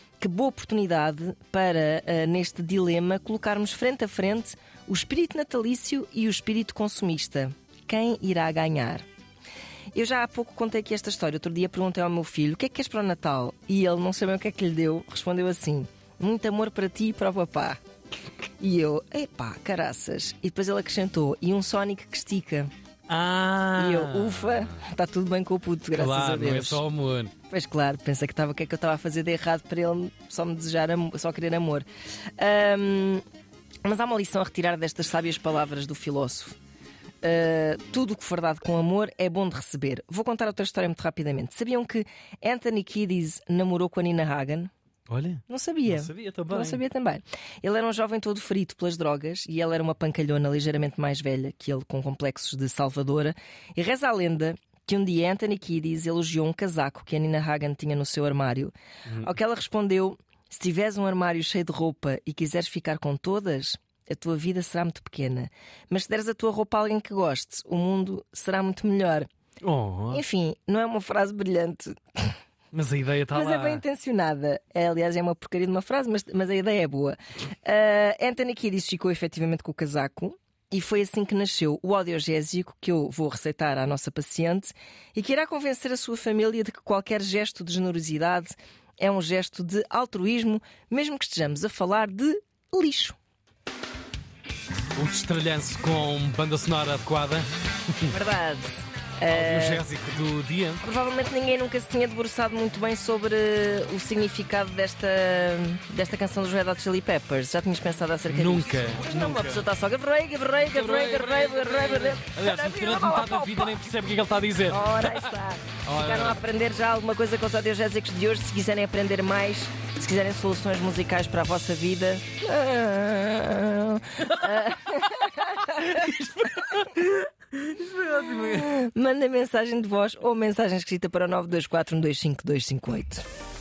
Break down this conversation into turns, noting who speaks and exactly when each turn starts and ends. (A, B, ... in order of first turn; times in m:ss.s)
0:00.2-0:09.0 A
0:09.9-0:17.8 A
0:18.6-0:22.7 A
0:23.1-0:24.8 B
0:23.8-0:26.8 A
0:25.9-0:27.3 B
0:27.5-0:31.8 A
0:32.4-0:33.2 A
0:33.8-0:36.6 A
0:37.2-0:44.7 A
0:45.1-0:46.8 B
0:45.5-0:58.7 A
0:59.1-0:59.3 B
0:59.2-1:09.3 A
1:09.6-1:10.2 B
1:10.1-1:12.3 A
1:12.7-1:13.8 B
1:13.3-1:33.2 A
1:35.0-1:38.1 B
1:38.1-1:39.8 A
1:39.3-1:40.8 B
1:40.8-1:53.8 A
1:48.3-1:49.6 B
1:50.7-1:55.3 B
1:54.6-2:07.2 A
1:55.8-1:56.4 B
2:07.6-2:08.6 B
2:08.4-2:13.2 A